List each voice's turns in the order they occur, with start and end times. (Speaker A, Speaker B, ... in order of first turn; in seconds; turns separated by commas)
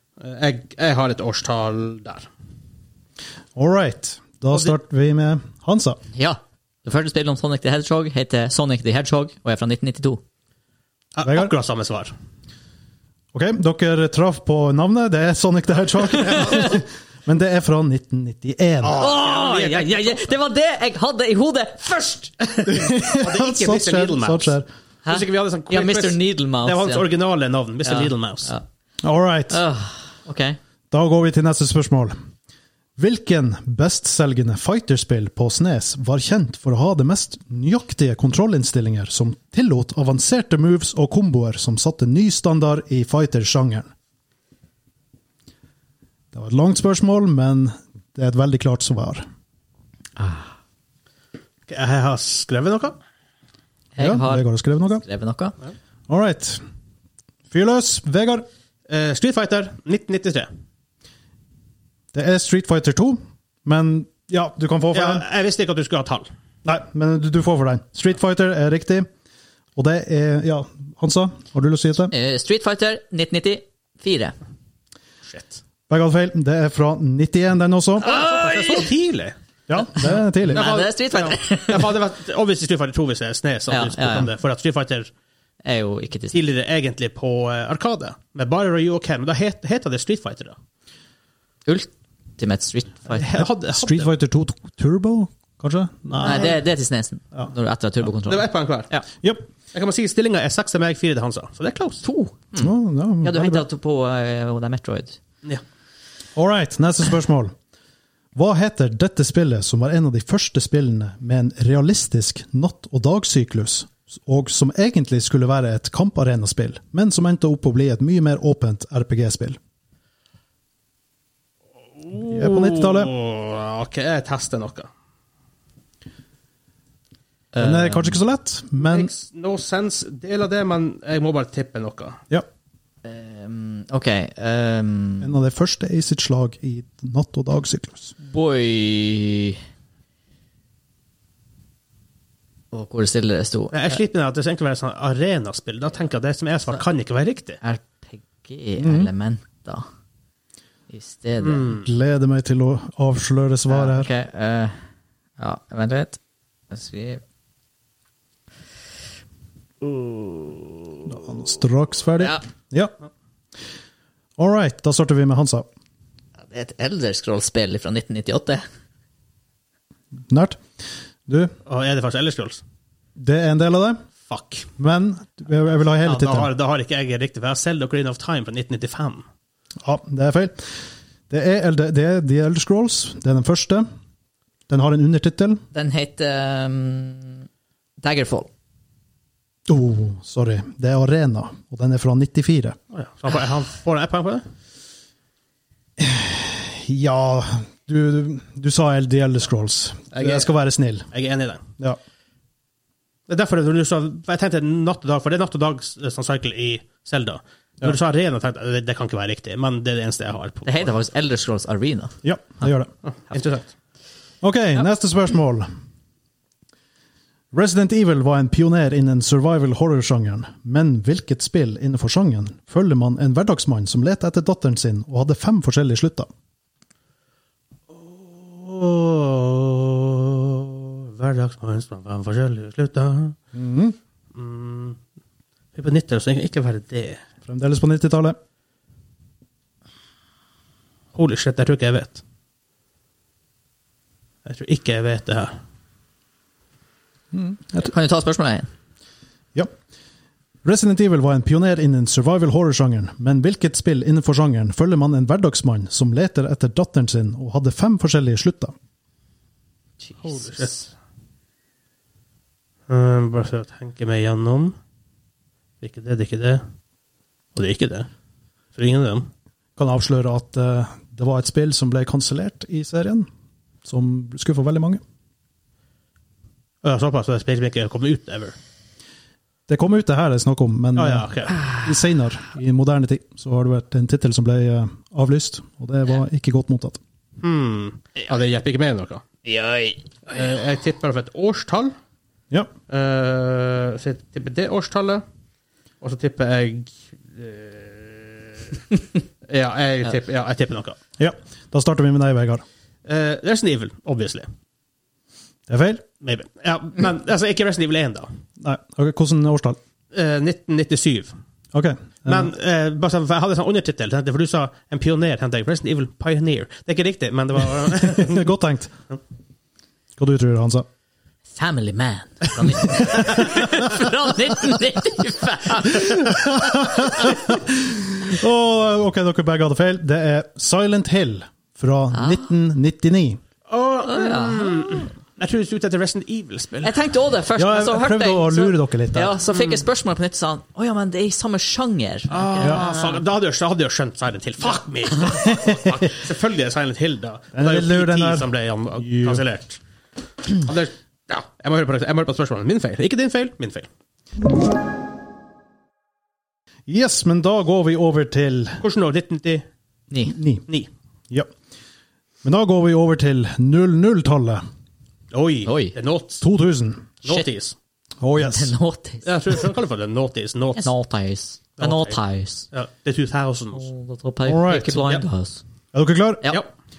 Speaker A: 0.2-2.3, Speaker B: 3.6-6.0, Speaker C: 6.2-10.2, Speaker A: 11.2-12.1, Speaker B: 11.2-11.5, Speaker B: 13.3-19.0, Speaker C: 16.3-16.7, Speaker A: 18.8-20.2, Speaker C: 19.0-22.7, Speaker B: 22.6-24.7, Speaker A: 23.0-24.6, Speaker C: 25.1-27.1, Speaker A: 25.1-28.5, Speaker C: 27.9-28.6, Speaker B: 29.0-29.6, Speaker C: 29.5-30.6, Speaker B: 30.9-32.1, Speaker B: 33.0-43.9, Speaker B: 46.3-49.2, Speaker C: 50.2-50.5, Speaker A: 51.7-53.0, Speaker C: 54.0-54.5, Speaker B: 54.0-55.0, Speaker C: 55.0-55.6, Speaker B: 56.1-56.6, Speaker B: 57.5-58.5, Speaker A: 58.9-60.5, Speaker B: 62.1-65.2, Speaker A: 64.9-66.3, Speaker B: 66.7-69.1, Speaker B: 69.8-72.1, Speaker C: 72.1-74.3, Speaker A: 75.3-75.6, Speaker B: 75.9-78.1, Speaker A: 78.0-79.4, Speaker C: 78.0-78.9, Speaker B: 79.7-80.7, Speaker C: 80.0-81.9, Speaker A: 80.5-85.1, Speaker C: 83.7-84.3, Speaker C: 85.6-86.4, Speaker A: 86.3-90.6, Speaker C: 91.7-93.3, Speaker A: 93.1-94.1, Speaker B: 93.4-96.6, Speaker C: 96.2-99.1, Speaker A: 98.2-98.9, Speaker A: 99.7-102.0, Speaker C: 102.0-105.2, Speaker B: 102.6-103.7, Speaker B: 106.3-107.5, Speaker B: 108.3-119.6, Speaker A: 122.0-124.9, Speaker B: 122.3-123.1, Speaker C: 127.5-128.2, Speaker B: 127.6-129.1, Speaker A: 128.8-132.2, Speaker C: 133.0-135.4, Speaker B: 135.2-138.1, Speaker C: 138.2-139.6, Speaker C: 142.7-144.0, Speaker A: 143.7-147.6, Speaker C: 147.6-149.9, Speaker B: 148.8-149.1, Speaker C: 150.9-151.8, Speaker A: 151.4-151.9, Speaker B: 151.8-154.1, Speaker C: 153.7-154.8, Speaker C: 155.4-156.2, Speaker C: 156.7-157.2, Speaker C: 159.8-161.0, Speaker B: 161.1-162.9, Speaker B: 164.4-165.7, Speaker C: 166.5-168.6, Speaker B: 170.3-170.6, Speaker B: 171.3-171.5, Speaker A: 171.7-172.6, Speaker B: 173.2-174.0, Speaker A: 174.3-174.7, Speaker B: 174.8-176.5, Speaker A: 176.0-179.2, Speaker B: 179.8-183.9, Speaker B: 184.7-185.6, Speaker C: 185.7-187.5, Speaker C: 188.0-188.5, Speaker B: 189.7-192.8, Speaker A: 192.9-194.4, Speaker B: 196.0-201.1, Speaker A: 200.1-200.5, Speaker A: 201.1-201.7, Speaker A: 203.3-210.9, Speaker C: 210.7-212.7, Speaker B: 212.2-212.9, Speaker A: 213.1-213.7, Speaker B: 214.4-215.7, Speaker B: 217.5-226.3, Speaker A: 227.9-233.4, Speaker B: 233.5-234.0, Speaker A: 234.3-235.0, Speaker A: 235.7-237.2, Speaker B: 237.5-238.4, Speaker A: 241.1-242.2, Speaker A: 244.5-245.6, Speaker B: 247.3-247.9, Speaker C: 247.8-248.7, Speaker B: 250.6-258.8, Speaker C: 260.1-260.7, Speaker A: 260.2-260.9, Speaker A: 262.9-264.8, Speaker A: 265.8-266.6, Speaker A: 267.6-268.1, Speaker A: 268.8-269.3, Speaker B: 269.8-273.3, Speaker B: 273.9-275.0, Speaker A: 276.8-278.6, Speaker B: 279.7-287.0, Speaker A: 281.0-281.6, Speaker A: 287.4-289.5, Speaker C: 289.6-290.0, Speaker A: 290.3-291.9, Speaker A: 292.9-295.2, Speaker A: 296.0-298.8, Speaker A: 299.5-301.0, Speaker B: 301.2-302.6, Speaker A: 303.1-304.5, Speaker B: 305.7-306.1, Speaker A: 306.2-308.3, Speaker B: 308.6-309.8, Speaker A: 310.1-311.4, Speaker B: 311.7-312.5, Speaker A: 312.3-318.5, Speaker B: 317.9-318.9, Speaker B: 320.2-320.9, Speaker C: 321.6-327.3, Speaker B: 325.9-333.4, Speaker C: 332.1-332.4, Speaker A: 333.7-337.0, Speaker C: 334.1-335.1, Speaker C: 336.8-343.2, Speaker B: 337.6-339.4, Speaker A: 339.5-339.9, Speaker A: 342.3-349.8, Speaker B: 342.6-342.9, Speaker B: 345.4-345.8, Speaker B: 347.5-349.4, Speaker A: 350.5-353.9, Speaker B: 356.9-358.8, Speaker A: 358.8-359.7, Speaker C: 360.1-360.4, Speaker B: 360.4-360.6, Speaker B: 362.4-364.6, Speaker A: 365.3-366.4, Speaker C: 365.7-365.9, Speaker B: 366.4-367.1, Speaker A: 367.2-367.8, Speaker B: 368.2-368.7, Speaker C: 368.4-369.5, Speaker A: 369.2-370.9, Speaker C: 370.8-372.7, Speaker A: 371.8-372.2, Speaker A: 372.7-373.9, Speaker C: 373.7-375.6, Speaker B: 374.5-375.0, Speaker B: 375.9-376.5